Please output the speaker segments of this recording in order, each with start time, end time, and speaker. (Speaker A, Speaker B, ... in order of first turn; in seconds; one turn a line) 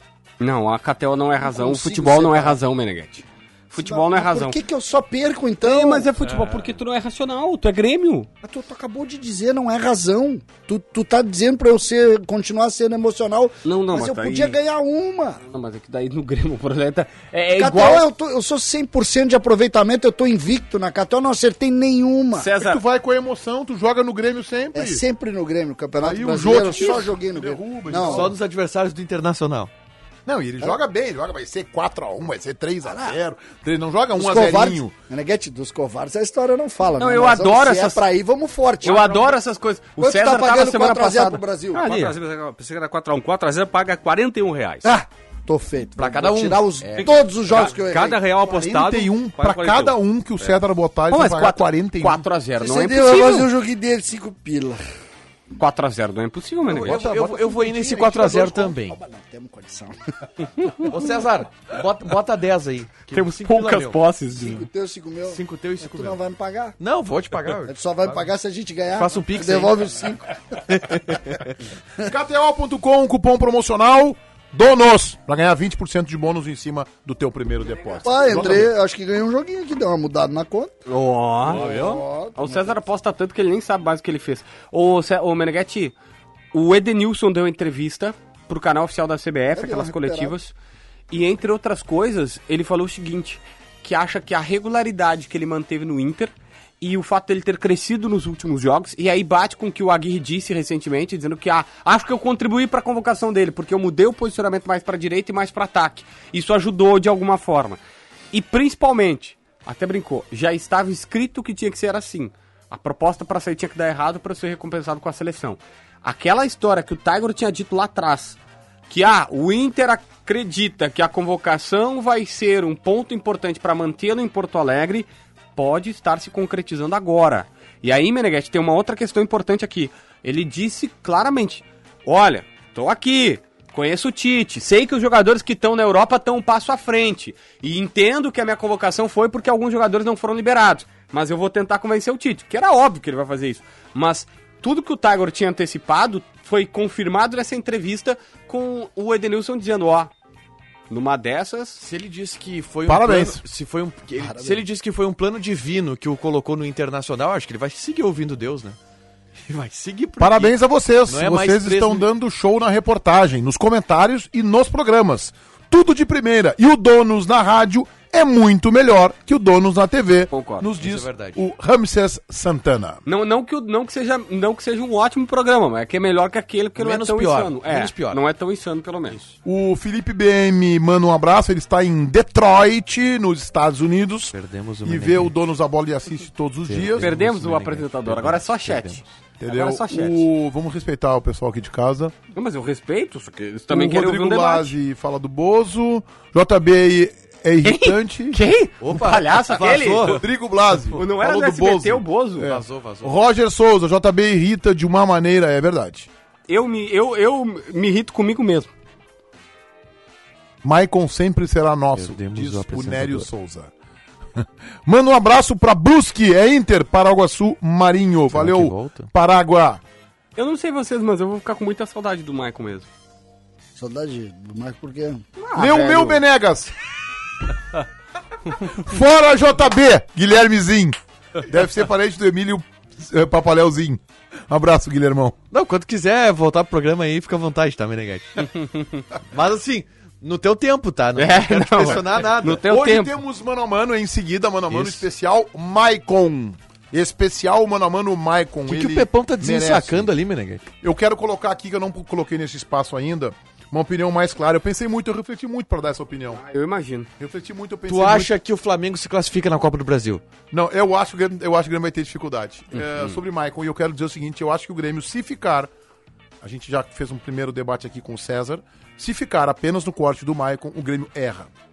Speaker A: 0.4-4.6
Speaker B: 1.4-2.6
Speaker B: 3.8-6.1
Speaker A: 5.6-8.3
Speaker B: 8.4-15.4
Speaker A: 13.6-14.6
Speaker A: 15.4-18.1
Speaker B: 17.5-22.5
Speaker A: 22.4-22.8
Speaker C: 22.5-25.0
Speaker B: 24.7-28.3
Speaker C: 26.0-28.4
Speaker A: 26.5-27.0
Speaker D: 28.0-29.7
Speaker C: 30.2-34.9
Speaker B: 32.8-33.2
Speaker B: 34.1-39.4
Speaker A: 37.0-38.0
Speaker A: 38.8-42.1
Speaker B: 40.0-42.0
Speaker E: 41.7-45.0
Speaker B: 44.8-48.2
Speaker D: 46.0-47.1
Speaker E: 47.0-50.0
Speaker C: 48.4-52.2
Speaker A: 51.1-53.5
Speaker B: 52.6-54.8
Speaker A: 55.6-57.0
Speaker C: 56.6-58.7
Speaker D: 56.8-59.0
Speaker B: 57.9-60.0
Speaker A: 60.6-60.9
Speaker D: 60.8-64.0
Speaker A: 63.1-64.7
Speaker B: 64.4-66.8
Speaker D: 65.3-66.2
Speaker D: 66.8-68.1
Speaker B: 67.6-70.6
Speaker D: 69.0-69.8
Speaker D: 70.7-71.5
Speaker C: 72.0-78.7
Speaker B: 78.0-80.8
Speaker A: 80.9-81.7
Speaker B: 81.4-82.8
Speaker E: 81.5-82.0
Speaker A: 82.4-85.9
Speaker A: 86.5-90.5
Speaker B: 89.5-90.3
Speaker A: 91.1-107.8
Speaker A: 108.3-150.1
Speaker A: 150.9-151.8
Speaker D: 151.8-158.8
Speaker C: 152.9-153.4
Speaker B: 154.2-154.6
Speaker D: 159.4-160.6
Speaker C: 160.2-173.0
Speaker D: 161.1-162.1
Speaker A: 170.3-170.7
Speaker D: 170.8-171.4
Speaker A: 173.1-179.2
Speaker D: 176.8-178.2
Speaker C: 179.4-187.1
Speaker D: 184.3-185.3
Speaker D: 186.7-189.1
Speaker A: 187.0-190.3
Speaker C: 189.4-192.1
Speaker A: 192.3-194.7
Speaker C: 193.7-198.4
Speaker A: 197.6-200.2
Speaker D: 198.8-200.2
Speaker C: 200.1-206.1
Speaker A: 200.9-202.5
Speaker D: 202.4-203.2
Speaker A: 206.5-208.7
Speaker C: 210.6-213.7
Speaker D: 211.9-213.3
Speaker C: 214.4-219.8
Speaker D: 218.3-219.1
Speaker A: 220.4-222.9
Speaker B: 223.7-225.2
Speaker A: 225.4-226.2
Speaker C: 225.6-226.7
Speaker C: 228.5-235.4
Speaker D: 235.5-238.5
Speaker A: 238.7-239.0
Speaker D: 239.3-242.7
Speaker A: 241.2-243.1
Speaker C: 242.6-250.1
Speaker D: 244.7-245.0
Speaker D: 248.6-250.7
Speaker C: 250.8-256.4
Speaker A: 256.3-257.1
Speaker C: 257.2-258.4
Speaker D: 257.9-260.2
Speaker C: 260.5-265.7
Speaker C: 266.4-271.5